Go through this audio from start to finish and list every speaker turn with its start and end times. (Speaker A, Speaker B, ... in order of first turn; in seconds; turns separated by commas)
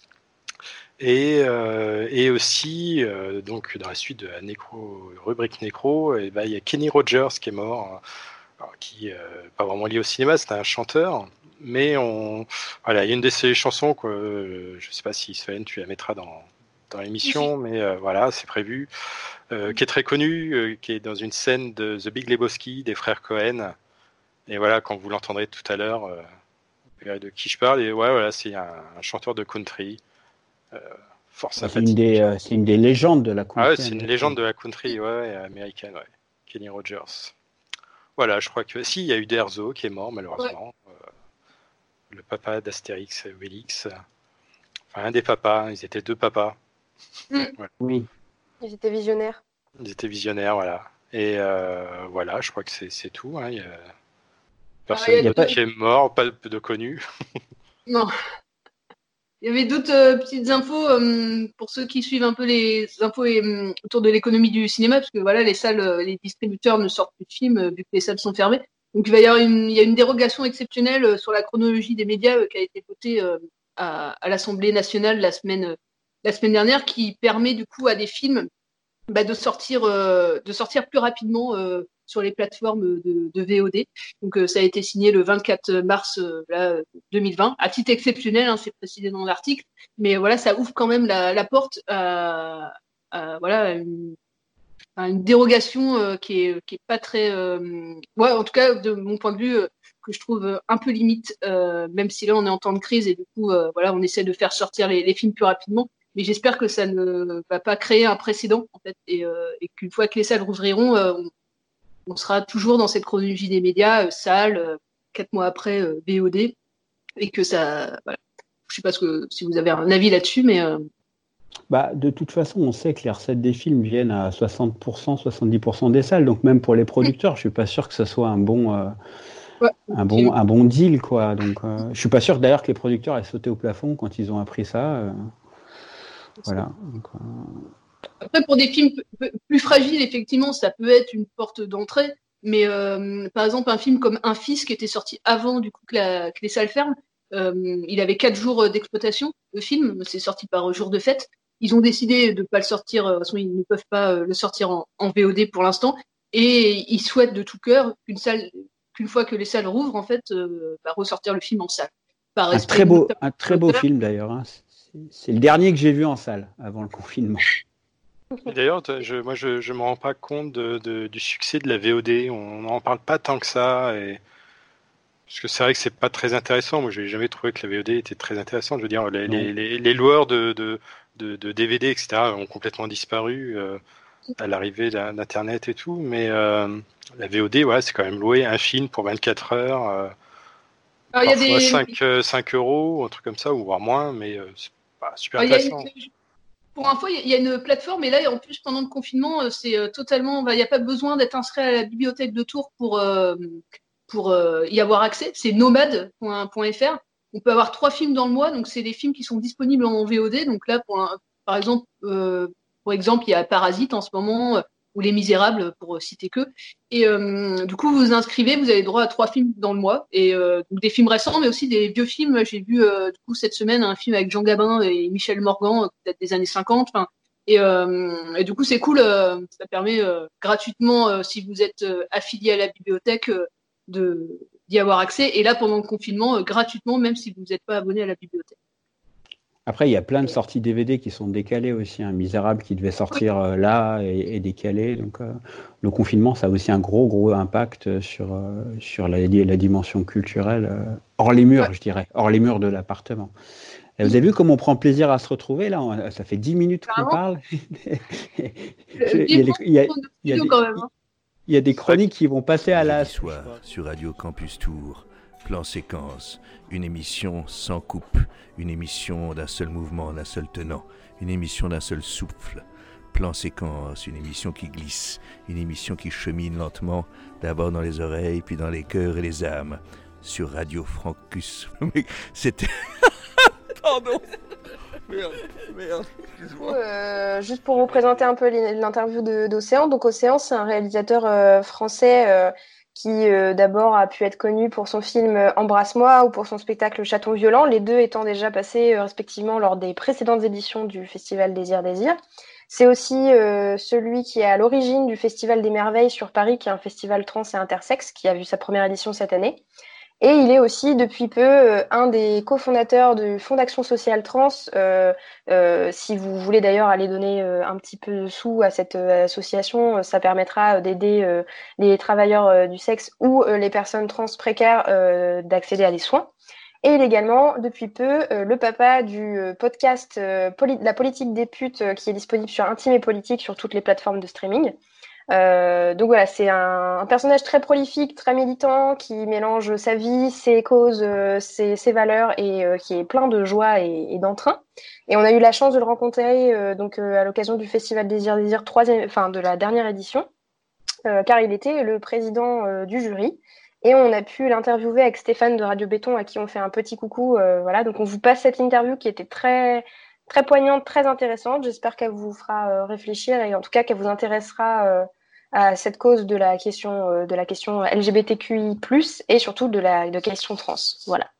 Speaker A: 1.0-8.0, Speaker A: 8.6-18.9, Speaker B: 17.2-17.5, Speaker A: 19.5-23.7, Speaker A: 24.5-26.2, Speaker A: 27.0-30.0, Speaker A: 30.7-32.2, Speaker C: 31.6-34.3, Speaker A: 33.6-37.3, Speaker A: 38.2-41.0, Speaker A: 42.1-43.9, Speaker A: 44.9-46.5, Speaker C: 47.8-48.1, Speaker D: 48.6-49.4, Speaker A: 49.8-53.9, Speaker A: 54.9-57.0, Speaker B: 54.9-55.5, Speaker C: 55.2-55.4, Speaker B: 59.4-78.5, Speaker B: 79.1-94.2, Speaker B: 95.0-111.3, Speaker B: 112.1-116.5, Speaker B: 117.2-120.9, Speaker C: 121.7-128.9, Speaker B: 129.6-130.3, Speaker C: 129.9-135.3, Speaker C: 136.5-137.7, Speaker B: 138.2-163.8, Speaker C: 162.5-167.5, Speaker A: 168.4-174.2, Speaker A: 175.3-183.8, Speaker A: 184.4-190.1, Speaker B: 191.1-191.9, Speaker A: 191.2-195.8, Speaker B: 195.4-196.1, Speaker B: 196.8-238.6, Speaker C: 239.7-253.3, Speaker C: 254.0-260.7, Speaker B: 256.9-257.2, Speaker B: 259.0-260.9, Speaker C: 261.5-263.6, Speaker E: 262.7-282.8, Speaker D: 286.6-309.6, Speaker D: 310.2-326.3, Speaker D: 326.8-334.8, Speaker D: 335.3-350.3, Speaker D: 351.1-371.1